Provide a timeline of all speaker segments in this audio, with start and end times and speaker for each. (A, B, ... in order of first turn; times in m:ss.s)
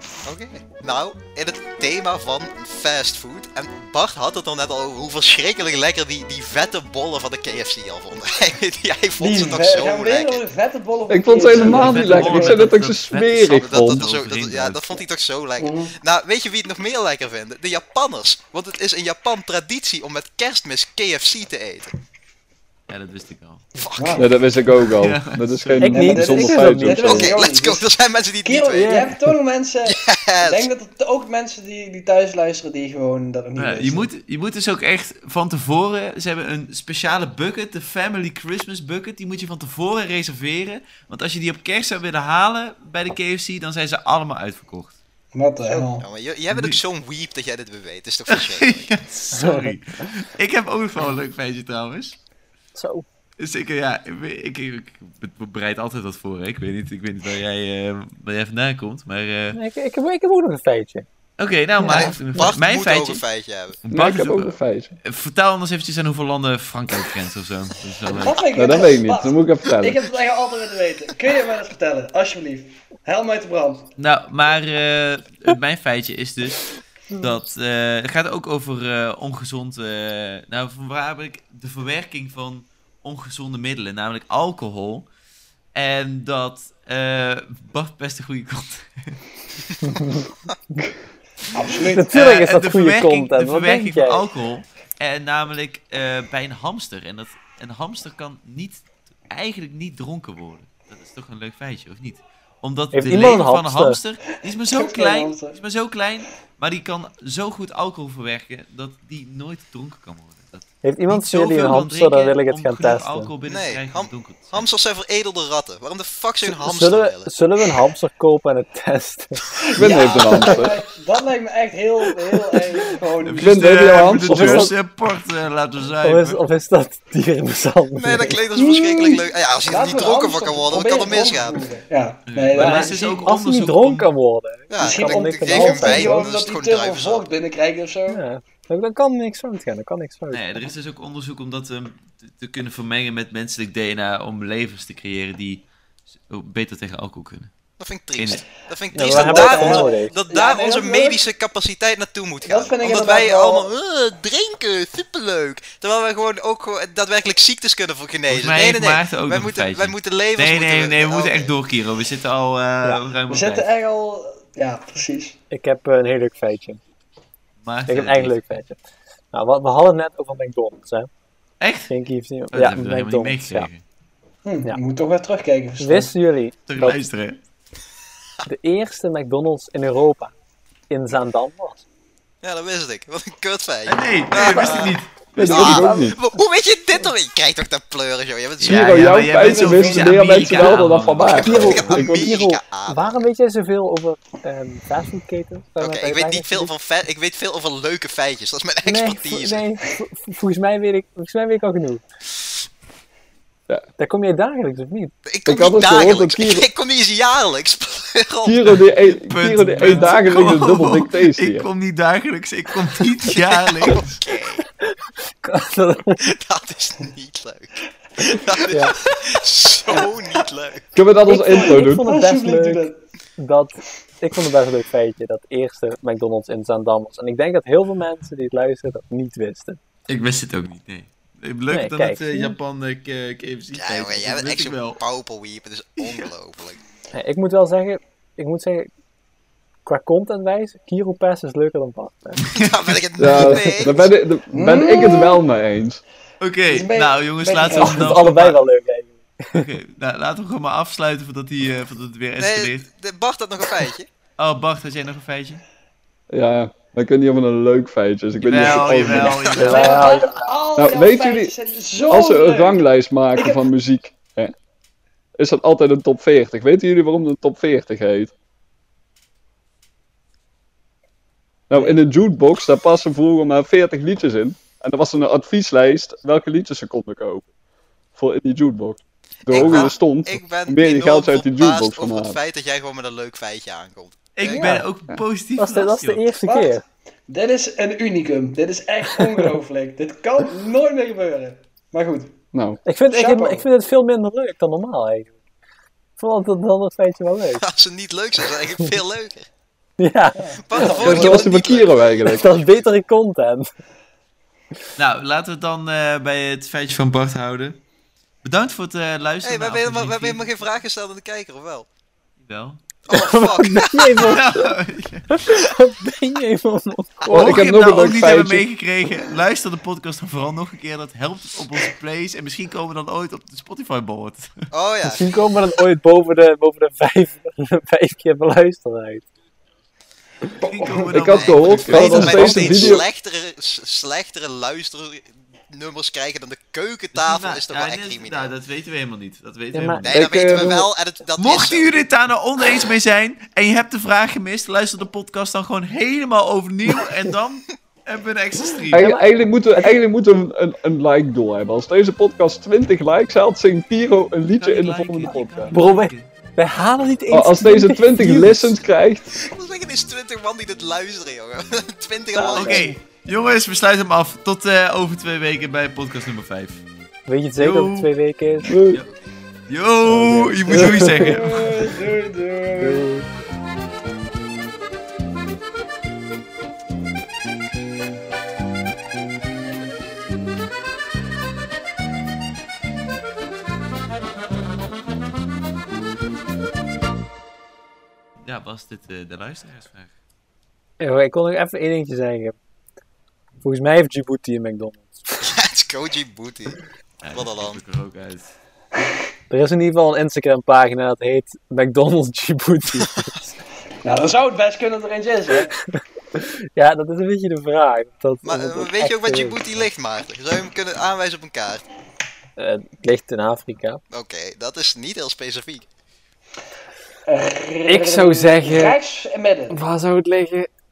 0:00.2-0:10.4 A
0:09.2-0:12.7 B
0:11.1-0:14.0 C
0:11.5-0:15.0 D
0:13.6-0:21.9 A
0:15.6-0:16.0 B
0:22.9-0:23.7 D
0:23.8-0:24.3 A
0:24.0-0:24.3 B
0:24.2-0:27.4 C
0:24.8-0:25.9 D
0:25.8-0:27.2 E
0:25.9-0:27.8 B
0:27.1-0:29.0 A
0:28.4-0:34.1 B
0:28.7-0:29.3 E
0:29.9-0:30.7 A
0:33.6-0:45.0 D
0:45.3-0:46.1 B
0:46.0-0:48.9 A
0:46.5-0:46.8 D
0:48.3-0:52.2 D
0:49.3-0:49.7 E
0:52.8-0:53.1 E
0:53.4-0:59.6 D
0:59.5-1:01.1 E
1:01.4-1:03.2 D
1:01.8-1:02.2 E
1:01.8-1:03.8 A
1:03.8-1:08.4 D
1:03.9-1:05.0 C
1:08.1-1:13.9 B
1:08.5-1:10.0 C
1:14.0-1:25.1 D
1:25.7-1:29.2 D
1:29.8-1:30.8 E
1:31.5-1:32.1 B
1:31.9-1:34.2 E
1:32.1-1:54.7 D
1:42.9-1:44.0 E
1:44.6-1:45.6 B
1:50.8-1:53.3 E
1:53.5-1:57.3 A
1:56.4-1:59.4 E
1:59.6-2:03.7 B
1:59.8-2:00.8 C
2:02.3-2:02.9 E
2:03.2-2:06.4 D
2:03.4-2:04.7 C
2:04.3-2:04.7 E
2:06.0-2:08.4 E
2:08.0-2:11.7 A
2:08.5-2:13.0 B
2:12.3-2:14.1 D
2:12.5-2:16.3 E
2:14.7-2:17.3 A
2:14.8-2:18.2 B
2:18.1-2:20.7 E
2:20.3-2:25.7 D
2:26.3-2:27.5 D
2:27.8-2:41.5 A
2:28.2-2:28.5 D
2:28.9-2:30.1 E
2:29.0-2:31.2 B
2:32.4-2:33.7 B
2:38.3-2:43.7 D
2:43.3-2:45.4 B
2:45.5-2:46.8 E
2:47.6-2:48.6 D
2:47.9-2:48.8 E
2:49.3-2:51.1 E
2:51.6-2:51.9 D
2:51.9-2:53.7 E
2:52.5-2:53.8 D
2:54.4-2:56.1 B
2:55.8-2:57.0 E
2:56.7-2:57.4 D
2:58.5-3:00.3 E
3:00.9-3:01.8 E
3:02.4-3:09.2 A
3:03.9-3:05.9 D
3:04.6-3:04.8 E
3:05.4-3:06.2 C
3:08.6-3:12.0 D
3:08.7-3:12.3 C
3:09.3-3:10.5 B
3:11.3-3:13.3 A
3:11.4-3:16.7 E
3:15.8-3:19.6 A
3:18.8-3:22.0 E
3:24.0-3:25.1 E
3:25.2-3:28.8 A
3:25.5-3:26.7 C
3:28.4-3:31.7 C
3:29.0-3:34.1 D
3:33.3-3:34.7 A
3:34.8-3:36.3 E
3:36.2-3:40.8 A
3:38.7-3:39.0 E
3:41.0-3:42.0 C
3:41.3-3:49.8 E
3:41.5-3:43.0 B
3:50.1-3:55.0 D
3:51.7-3:52.6 E
3:53.8-3:56.8 A
3:56.0-3:56.3 D
3:57.1-3:58.9 E
3:59.9-4:02.5 E
4:02.5-4:02.8 D
4:02.5-4:04.1 A
4:03.2-4:06.0 C
4:03.3-4:03.9 E
4:04.5-4:05.4 B
4:06.4-4:08.6 D
4:06.7-4:08.2 B
4:07.7-4:09.6 E
4:09.5-4:12.9 D
4:12.4-4:14.1 A
4:14.4-4:15.6 D
4:16.3-4:19.4 C
4:18.4-4:20.2 D
4:18.8-4:20.5 E
4:19.2-4:19.9 A
4:19.6-4:23.6 B
4:20.8-4:24.5 C
4:25.4-4:28.3 C
4:31.7-4:37.5 C
4:38.2-4:42.4 C
4:39.5-4:44.6 A
4:39.6-4:39.8 E
4:44.4-4:46.3 D
4:44.4-4:44.8 B
4:44.5-4:44.8 E
4:45.6-4:46.8 E
4:46.4-4:52.4 B
4:52.5-4:52.8 C
4:52.9-4:55.4 E
4:53.1-4:53.7 B
4:56.2-4:57.6 E
4:57.6-4:59.5 A
5:00.0-5:01.5 E
5:00.4-5:01.3 B
5:00.7-5:02.9 A
5:01.0-5:02.4 C
5:02.3-5:03.7 E
5:05.0-5:07.8 D
5:08.4-5:10.5 D
5:09.4-5:11.9 A
5:12.4-5:12.8 D
5:13.1-5:14.4 A
5:13.1-5:14.8 E
5:14.2-5:15.6 D
5:15.3-5:17.6 E
5:17.3-5:18.6 C
5:17.3-5:24.6 D
5:24.7-5:25.3 A
5:25.1-5:29.2 E
5:30.6-5:33.0 D
5:30.6-5:30.9 B
5:31.1-5:33.1 C
5:31.2-5:38.5 A
5:37.1-5:40.0 D
5:39.7-5:40.8 E
5:40.0-5:42.0 A
5:40.1-5:40.9 C
5:41.4-5:49.1 D
5:48.9-5:49.3 E
5:48.9-5:55.7 C
5:54.6-5:56.3 D
5:55.7-5:58.8 E
5:57.3-5:59.3 C
5:59.4-6:02.9 A
6:02.3-6:03.0 E
6:02.5-6:06.8 D
6:02.6-6:02.9 B
6:07.3-6:08.8 E
6:07.6-6:08.1 D
6:08.7-6:09.0 C
6:09.7-6:11.7 D
6:10.1-6:11.6 E
6:11.1-6:13.1 B
6:12.9-6:13.2 C
6:28.4-6:30.1 D
6:31.0-6:32.6 E
6:33.6-6:35.4 E
6:35.4-6:36.8 A
6:37.2-6:38.6 D
6:37.3-6:37.8 A
6:39.5-6:43.5 E
6:44.0-6:45.7 B
6:45.9-6:49.6 E
6:48.4-6:51.8 A
6:52.6-6:54.0 E
6:54.1-6:55.8 A
6:57.3-6:59.8 B
6:57.9-6:59.0 E
6:59.7-7:00.7 E